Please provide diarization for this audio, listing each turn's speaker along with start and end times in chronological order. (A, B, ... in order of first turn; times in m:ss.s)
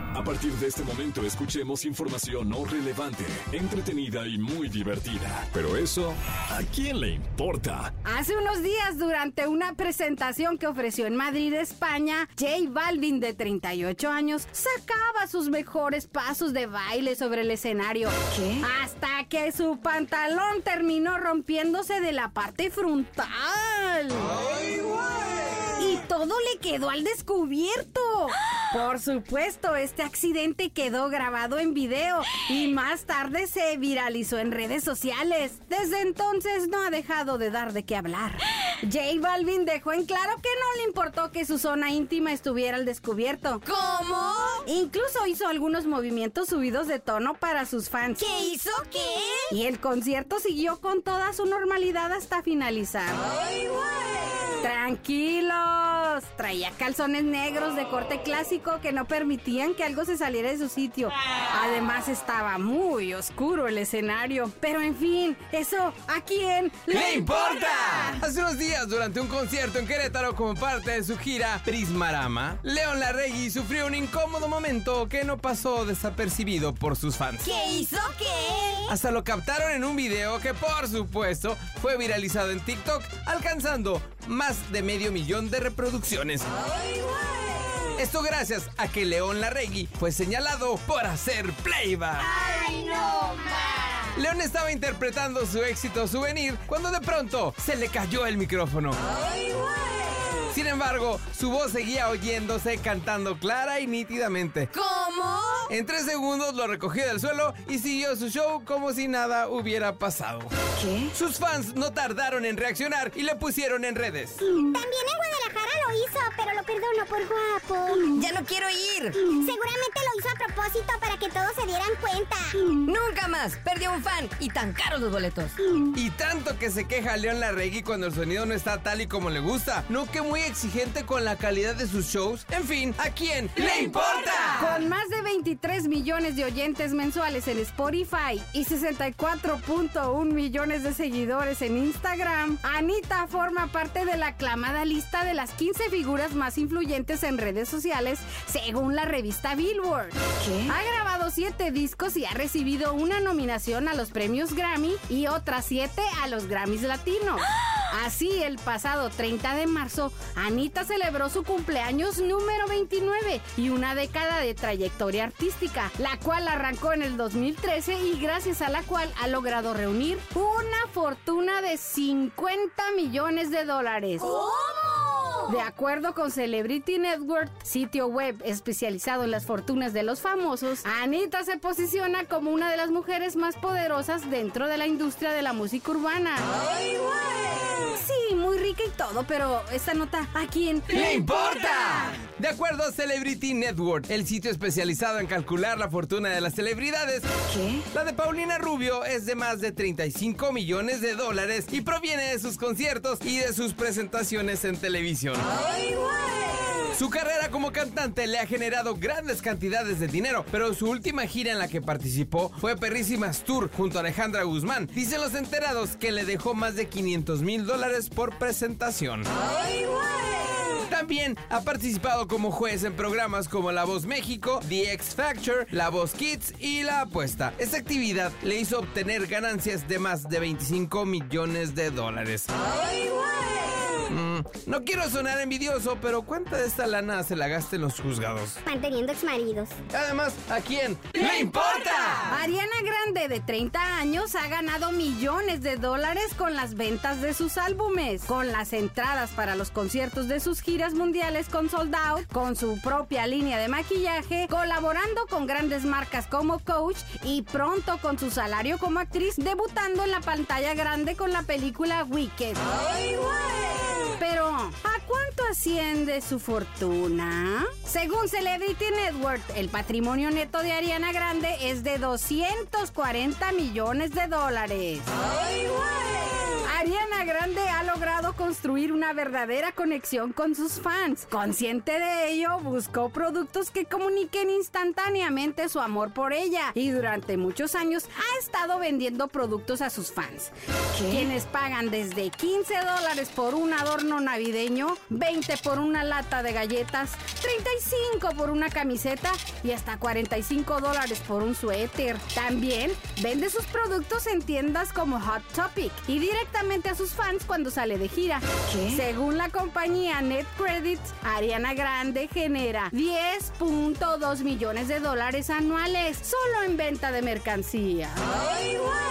0:00.1-0:07.9 A
0:08.0-0:24.4 B
0:24.5-0:24.8 C
0:25.8-0:43.7 B
0:43.7-0:44.6 D
0:44.6-0:48.6 B
0:48.4-0:49.5 D
0:49.5-0:53.3 B
0:54.6-1:08.2 B
1:06.9-1:17.6 C
1:17.4-1:18.9 E
1:17.7-1:18.1 D
1:18.9-1:26.5 C
1:28.0-1:32.4 C
1:34.0-1:39.0 C
1:40.5-1:44.7 C
1:44.8-1:45.7 D
1:45.7-1:50.5 C
1:51.1-1:54.5 C
1:54.6-1:58.3 E
1:58.2-1:59.3 D
1:59.3-2:02.6 E
2:02.8-2:05.6 D
2:05.9-2:14.8 C
2:14.6-2:54.4 B
2:54.4-2:55.4 E
2:55.4-3:06.5 B
3:07.7-3:11.0 B
3:10.9-3:17.3 C
3:17.9-3:25.5 C
3:26.9-3:39.3 C
3:40.8-3:52.5 C
3:54.1-3:58.6 C
3:58.6-3:59.8 E
3:59.9-4:02.4 C
4:02.3-4:22.8 B
4:24.0-4:35.1 B
4:36.5-5:18.5 B